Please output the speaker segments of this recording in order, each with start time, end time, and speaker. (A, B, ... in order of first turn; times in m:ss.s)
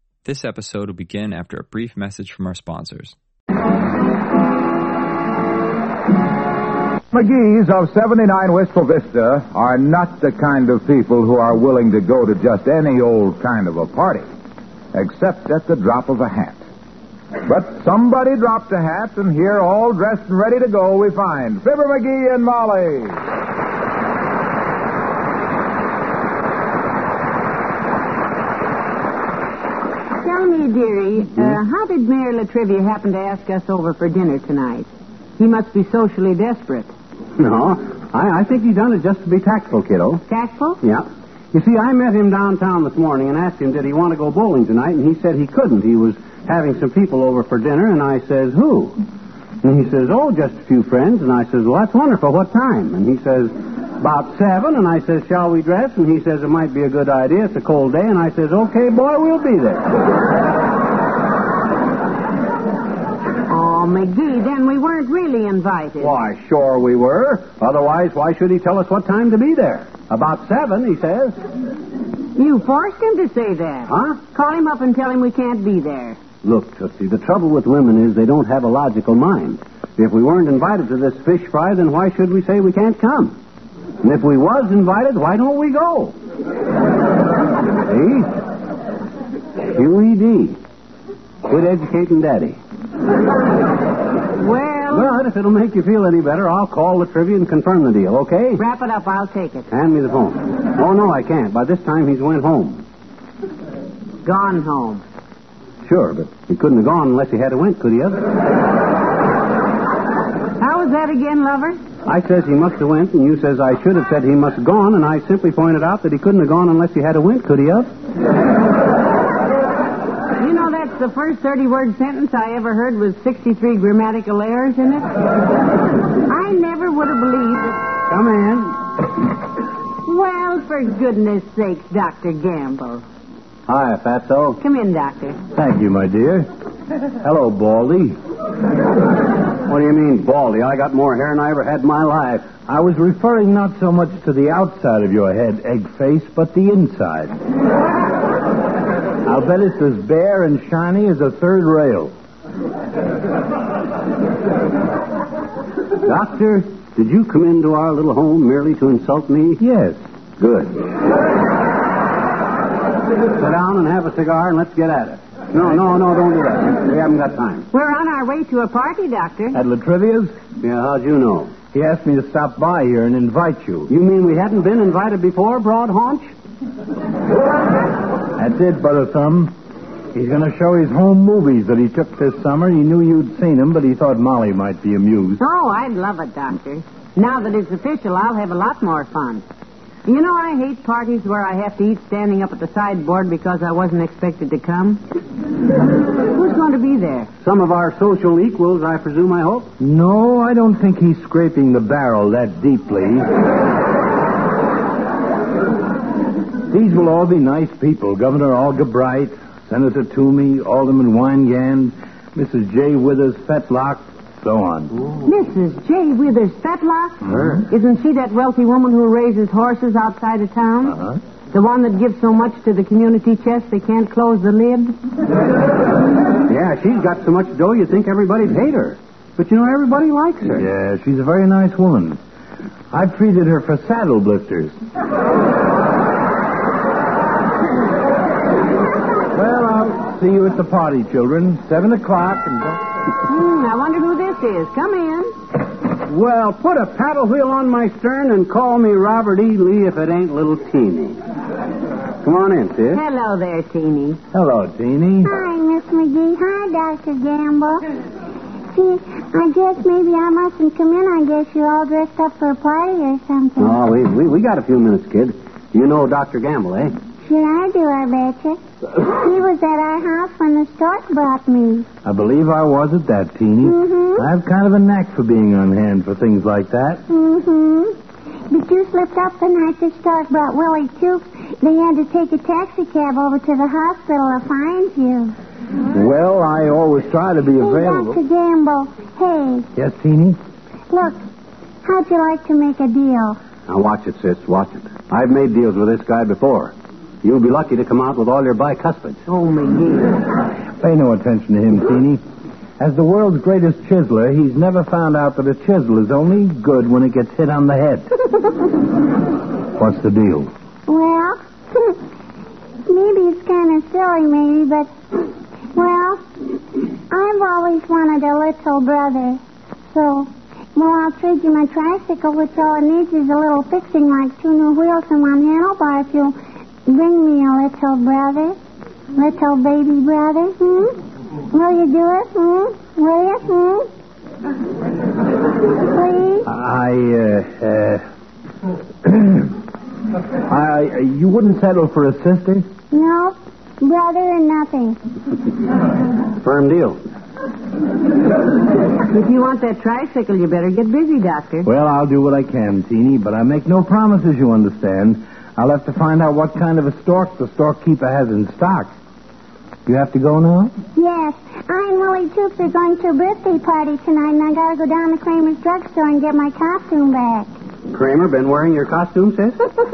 0:00.2-0:03.1 A
0:07.1-0:14.3 B
0:14.9-0:16.6 B
0:17.4-0:23.2 B
0:30.2-0:36.9 C
0:37.4-0:40.2 D
0:40.3-0:40.8 C
0:40.8-0:49.0 D
0:49.6-0:59.9 D
1:03.5-1:06.2 C
1:06.0-1:11.4 D
1:12.4-1:16.2 C
1:13.9-1:14.2 D
1:16.4-1:23.4 D
1:24.0-1:26.2 D
1:27.8-1:28.3 D
1:29.6-1:30.6 D
1:31.4-1:32.6 D
1:34.4-1:35.1 C
1:34.9-1:38.6 D
1:38.6-1:39.7 C
1:39.7-1:42.8 D
1:44.2-1:45.0 C
1:45.8-1:48.3 D
1:50.6-1:51.8 C
1:52.0-1:57.9 D
2:00.4-2:05.1 C
2:06.2-2:07.8 C
2:08.1-2:08.8 D
2:10.0-2:13.0 C
2:13.7-2:14.6 D
2:14.6-2:15.4 C
2:15.5-2:16.5 E
2:17.2-2:18.2 E
2:19.6-2:22.5 D
2:22.7-2:27.4 E
2:29.2-2:32.1 E
2:36.0-2:39.6 D
2:39.6-2:40.0 E
2:40.4-2:40.8 D
2:43.3-2:47.7 D
2:47.7-2:49.6 C
2:49.5-2:50.3 E
2:50.6-2:51.5 D
2:51.7-2:53.9 E
2:53.9-2:56.3 D
2:58.4-2:59.5 E
3:00.1-3:05.4 E
3:05.4-3:09.4 C
3:10.0-3:15.0 C
3:16.3-3:17.3 C
3:17.4-3:19.7 D
3:19.8-3:23.3 E
3:26.7-3:34.9 E
3:35.2-3:41.0 C
3:37.3-3:37.6 D
3:40.9-3:41.2 E
3:41.5-3:45.0 C
3:46.4-3:50.6 D
3:50.6-3:52.2 E
3:52.9-3:54.8 E
3:59.3-4:02.8 E
4:03.2-4:05.3 C
4:06.1-4:11.2 D
4:12.2-4:13.0 D
4:12.9-4:14.2 C
4:14.3-4:15.3 E
4:15.2-4:17.8 F
4:18.7-4:23.8 F
4:23.6-4:26.9 D
4:27.2-4:31.9 F
4:32.0-4:37.0 E
4:33.6-4:34.3 F
4:37.1-4:38.0 F
4:38.5-4:45.3 F
4:45.9-4:48.2 E
4:47.6-4:49.7 F
4:49.8-4:50.4 E
4:50.9-4:51.2 F
4:51.8-4:53.4 F
4:53.7-4:59.2 D
4:59.3-5:00.2 C
5:00.8-5:02.2 E
5:02.8-5:08.1 E
5:09.7-5:10.5 E
5:10.9-5:12.0 F
5:12.8-5:14.9 F
5:15.7-5:16.2 F
5:17.1-5:19.4 F
5:19.9-5:28.6 F
5:29.1-5:31.0 F
5:31.5-5:33.9 F
5:35.9-5:36.5 F
5:36.4-5:38.0 E
5:39.0-5:39.5 E
5:40.5-5:42.6 E
5:42.9-5:45.0 F
5:46.4-5:47.0 D
5:49.1-5:51.7 C
5:51.6-5:58.9 E
5:59.8-6:00.7 E
6:00.9-6:07.5 F
6:07.9-6:09.6 D